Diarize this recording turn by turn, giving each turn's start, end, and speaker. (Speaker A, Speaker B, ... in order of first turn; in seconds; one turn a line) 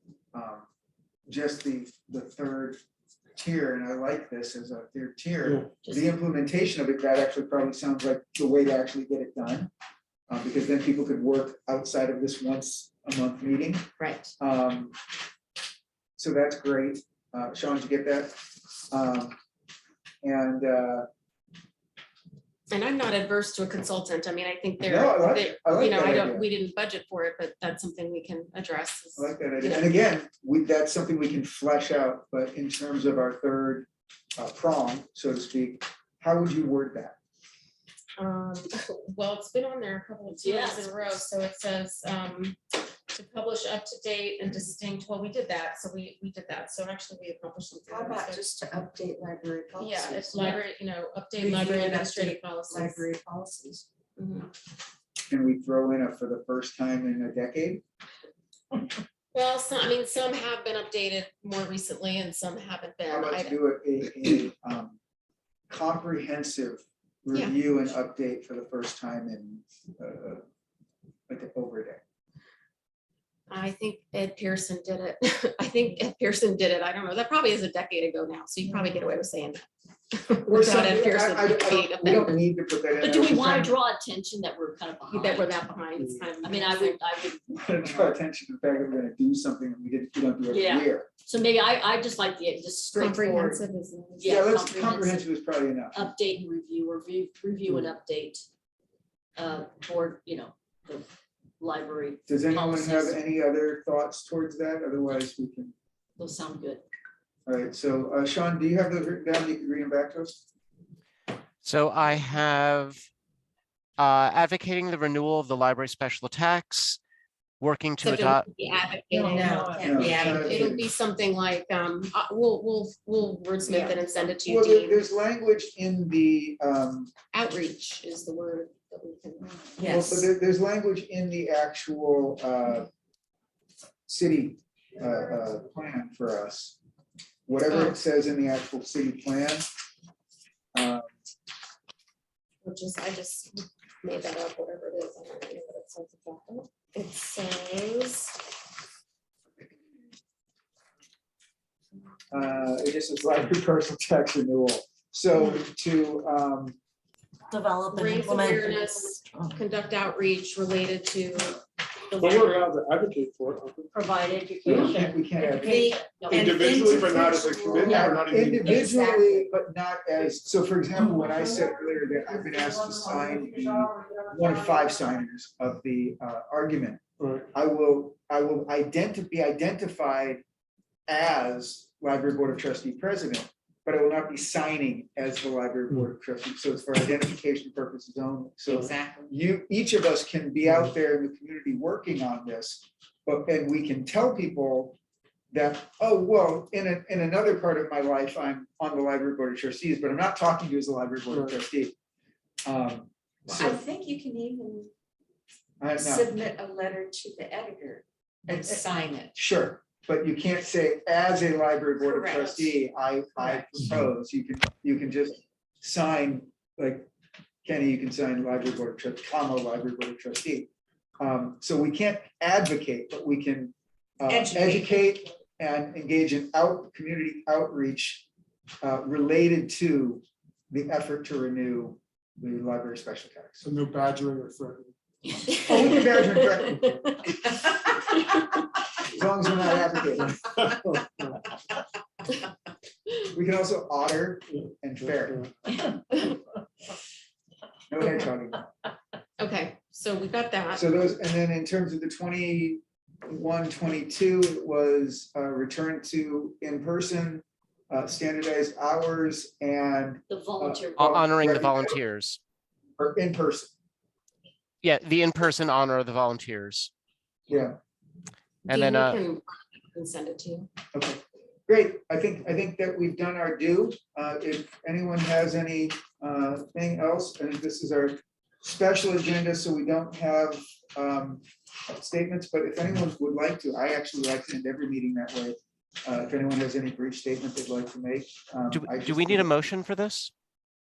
Speaker A: 0.3-0.7
Speaker A: 1.3-2.8
Speaker A: 3.4-9.7
Speaker B: 5.8-6.1
Speaker A: 10.3-13.9
Speaker C: 14.0-14.3
Speaker A: 14.4-14.9
Speaker A: 16.2-18.4
Speaker A: 18.9-19.4
Speaker A: 20.2-21.1
Speaker C: 22.7-29.9
Speaker A: 24.8-26.4
Speaker A: 29.2-37.1
Speaker C: 38.2-42.6
Speaker B: 40.3-41.2
Speaker C: 43.1-48.5
Speaker D: 47.9-50.6
Speaker C: 49.8-53.1
Speaker D: 51.4-53.8
Speaker C: 54.2-54.5
Speaker A: 55.3-57.8
Speaker C: 59.3-63.6
Speaker A: 63.1-65.0
Speaker A: 65.7-70.4
Speaker A: 71.3-72.0
Speaker C: 73.5-82.4
Speaker A: 80.5-83.8
Speaker B: 83.0-85.6
Speaker C: 85.1-87.0
Speaker E: 86.0-86.2
Speaker B: 86.4-87.4
Speaker A: 87.5-91.1
Speaker B: 90.5-93.6
Speaker C: 92.9-94.4
Speaker B: 94.2-95.2
Speaker A: 94.2-96.0
Speaker B: 95.9-98.5
Speaker B: 99.3-101.1
Speaker B: 101.6-103.2
Speaker A: 102.3-105.7
Speaker B: 106.2-106.8
Speaker A: 107.5-110.4
Speaker F: 111.6-113.0
Speaker F: 114.0-117.0
Speaker F: 117.6-118.5
Speaker C: 118.0-125.2
Speaker D: 119.1-120.6
Speaker A: 119.8-120.8
Speaker D: 123.7-124.0
Speaker A: 124.4-127.1
Speaker C: 127.3-129.9
Speaker A: 129.8-132.9
Speaker D: 129.8-130.2
Speaker A: 134.1-136.8
Speaker A: 137.5-139.7
Speaker C: 137.7-138.0
Speaker A: 140.7-141.1
Speaker C: 142.6-148.4
Speaker A: 152.3-156.8
Speaker B: 157.5-159.0
Speaker C: 157.9-161.6
Speaker C: 162.1-162.5
Speaker E: 162.2-163.9
Speaker B: 163.9-166.7
Speaker E: 164.7-164.9
Speaker A: 164.8-165.9
Speaker D: 165.5-169.4
Speaker E: 166.3-168.8
Speaker A: 167.9-180.4
Speaker B: 168.7-169.3
Speaker E: 177.2-177.5
Speaker A: 181.1-195.0
Speaker D: 188.7-189.3
Speaker A: 195.5-201.9
Speaker A: 202.7-203.8
Speaker D: 203.5-204.9
Speaker A: 205.8-206.3
Speaker D: 205.9-209.3
Speaker A: 208.5-208.8
Speaker A: 209.3-217.1
Speaker C: 212.0-212.7
Speaker A: 217.6-220.7
Speaker A: 221.2-228.2
Speaker D: 224.3-225.1
Speaker A: 228.8-233.6
Speaker E: 233.6-234.9
Speaker C: 235.5-237.3
Speaker A: 235.6-236.9
Speaker A: 239.0-240.4
Speaker E: 240.7-241.1
Speaker A: 243.3-245.5
Speaker E: 245.0-245.4
Speaker A: 247.9-248.7
Speaker C: 249.4-250.8
Speaker A: 250.7-261.9
Speaker B: 260.3-261.3
Speaker F: 261.0-262.4
Speaker A: 263.0-263.7
Speaker F: 264.8-266.9
Speaker A: 267.5-267.7
Speaker C: 268.6-270.7
Speaker F: 268.7-269.2
Speaker A: 270.9-289.5
Speaker F: 288.7-290.3